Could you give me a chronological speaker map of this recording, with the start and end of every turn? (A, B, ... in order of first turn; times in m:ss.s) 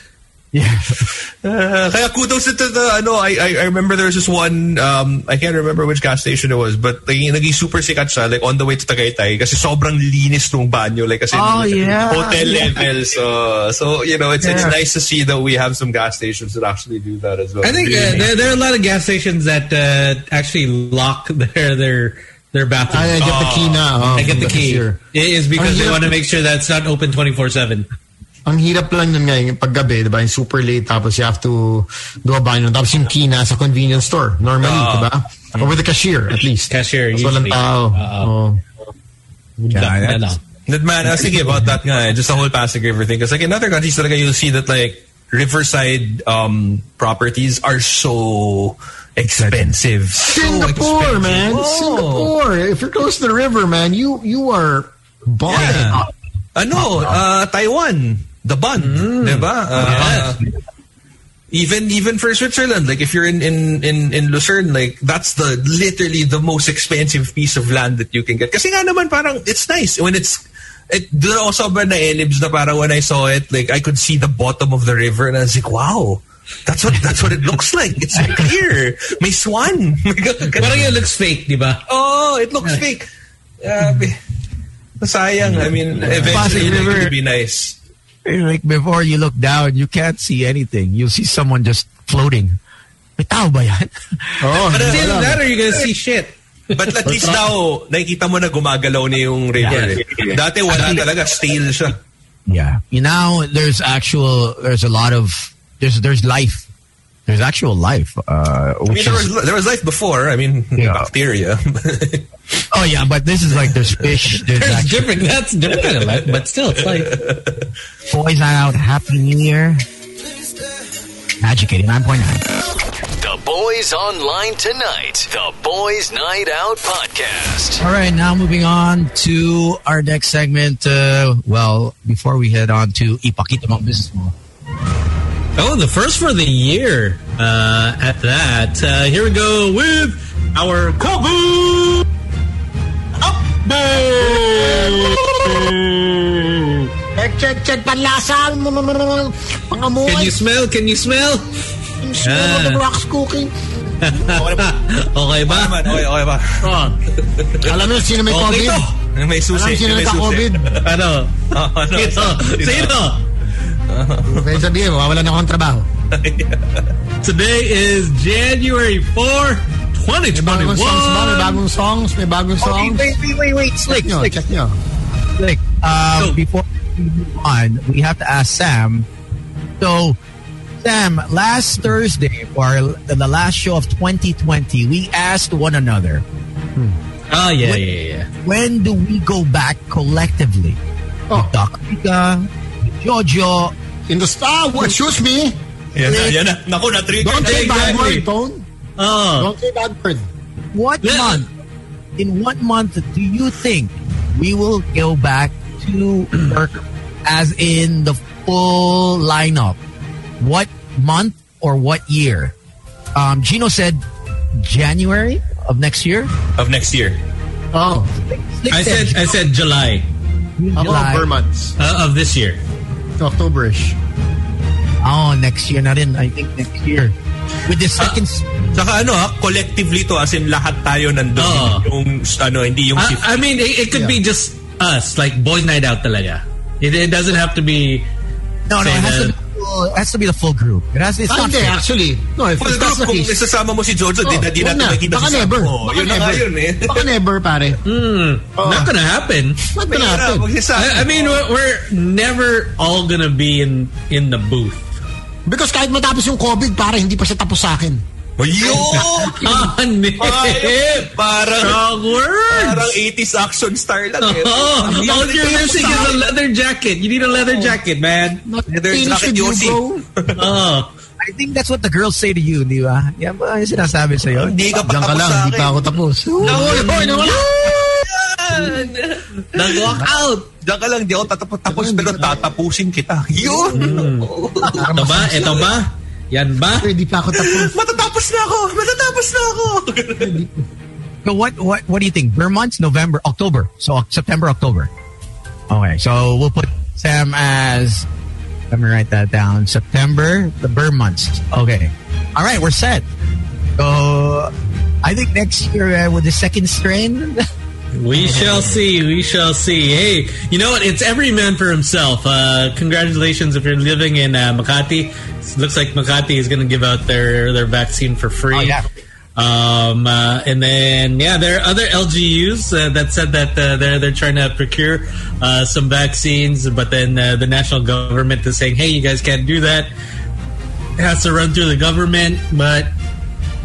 0:00.5-0:01.0 A
0:01.4-0:18.6 B
0:11.3-0:12.9 A
0:14.4-0:14.8 A
0:17.6-0:23.2 C
0:22.9-0:25.0 D
0:23.2-0:24.3 B
0:24.2-0:27.9 C
0:25.5-0:26.1 D
0:28.4-0:38.6 D
0:34.6-0:35.7 B
0:36.7-0:38.3 C
0:39.6-0:40.4 C
0:39.7-0:40.4 A
0:40.7-0:52.3 B
0:49.3-0:49.7 A
0:50.2-0:56.1 D
0:55.5-1:00.4 B
0:56.8-0:57.2 A
0:58.8-1:00.3 C
0:59.8-1:00.2 A
1:01.5-1:20.9 B
1:18.2-1:18.5 A
1:20.6-1:21.8 C
1:21.9-1:23.1 B
1:23.6-1:24.2 B
1:25.0-1:27.8 B
1:26.1-1:27.1 A
1:28.2-1:32.6 A
1:33.2-1:34.6 A
1:34.4-1:35.4 D
1:34.6-1:35.2 B
1:34.8-1:37.4 C
1:36.7-1:42.0 B
1:39.6-1:41.1 A
1:39.7-1:40.0 C
1:42.5-1:46.6 A
1:47.3-1:49.3 A
1:48.9-1:52.3 B
1:50.8-1:51.1 A
1:52.7-1:55.2 A
1:54.6-1:57.2 C
1:56.8-1:57.5 B
1:58.1-1:59.8 A
2:01.4-2:02.5 A
2:03.2-2:07.8 E
2:07.8-2:14.3 A
2:15.6-2:22.0 C
2:23.8-2:25.8 D
2:27.1-2:30.4 D
2:30.0-2:31.6 C
2:32.0-2:33.5 D
2:32.2-2:32.8 C
2:34.0-2:36.0 C
2:34.3-2:34.7 B
2:35.4-2:37.7 B
2:36.6-2:36.9 D
2:37.6-2:38.8 D
2:38.3-2:38.9 C
2:39.1-2:40.9 B
2:39.5-2:40.7 D
2:40.8-2:43.2 C
2:41.5-2:43.0 B
2:43.9-2:44.6 B
2:44.2-2:45.9 D
2:46.1-2:46.9 B
2:47.2-2:51.6 C
2:50.3-2:53.2 D
2:52.6-2:54.4 A
2:53.9-2:54.8 D
2:55.4-2:59.1 A
2:59.8-3:00.2 A
3:00.8-3:06.2 A
3:07.3-3:08.3 C
3:08.4-3:10.8 A
3:11.3-3:13.7 A
3:14.1-3:16.4 D
3:15.9-3:18.0 B
3:17.2-3:18.6 D
3:17.4-3:18.3 C
3:19.0-3:19.5 C
3:19.4-3:20.3 D
3:20.7-3:21.5 A
3:21.0-3:21.4 C
3:22.2-3:29.8 A
3:30.4-3:32.5 A
3:33.1-3:34.0 A
3:34.6-3:36.3 A
3:36.6-3:37.2 B
3:37.7-3:38.1 D
3:38.3-3:39.4 A
3:38.7-3:40.1 C
3:40.6-3:41.3 A
3:40.7-3:41.7 D
3:41.8-3:42.6 C
3:43.2-3:44.0 D
3:45.0-3:47.1 A
3:47.6-3:48.5 A
3:48.7-3:53.4 B
3:51.4-3:51.9 C
3:53.0-3:58.1 C
3:53.9-3:54.2 D
3:58.7-4:01.8 A
3:58.8-3:59.3 C
4:01.3-4:03.4 D
4:02.6-4:07.1 B
4:04.2-4:07.8 D
4:07.8-4:09.6 C
4:08.6-4:08.9 D
4:09.7-4:10.5 D
4:09.8-4:11.4 B
4:10.7-4:14.9 C
4:15.4-4:18.0 D
4:18.4-4:19.6 B
4:18.7-4:23.0 C
4:20.2-4:21.9 B
4:22.5-4:26.2 B
4:24.2-4:28.4 C
4:25.0-4:26.1 D
4:27.4-4:27.7 B
4:28.4-4:30.0 D
4:28.7-4:30.4 B
4:30.3-4:30.9 C
4:31.2-4:34.6 A
4:34.4-4:35.9 B
4:34.7-4:37.7 D
4:36.4-4:44.9 B
4:36.4-4:37.4 C
4:39.5-4:40.4 C
4:41.7-4:42.4 D
4:43.4-4:44.0 D
4:43.7-4:44.3 C
4:44.7-4:45.7 D
4:44.8-4:46.9 C
4:46.7-4:47.8 D
4:47.3-4:50.4 B
4:50.2-4:50.5 D
4:51.2-4:54.9 A
4:55.7-4:58.0 A
4:58.7-5:03.0 A
5:03.8-5:04.5 A
5:05.0-5:07.4 A
5:07.9-5:18.8 C
5:08.2-5:08.8 B
5:18.5-5:18.9 A
5:19.4-5:29.9 C
5:31.0-5:32.9 C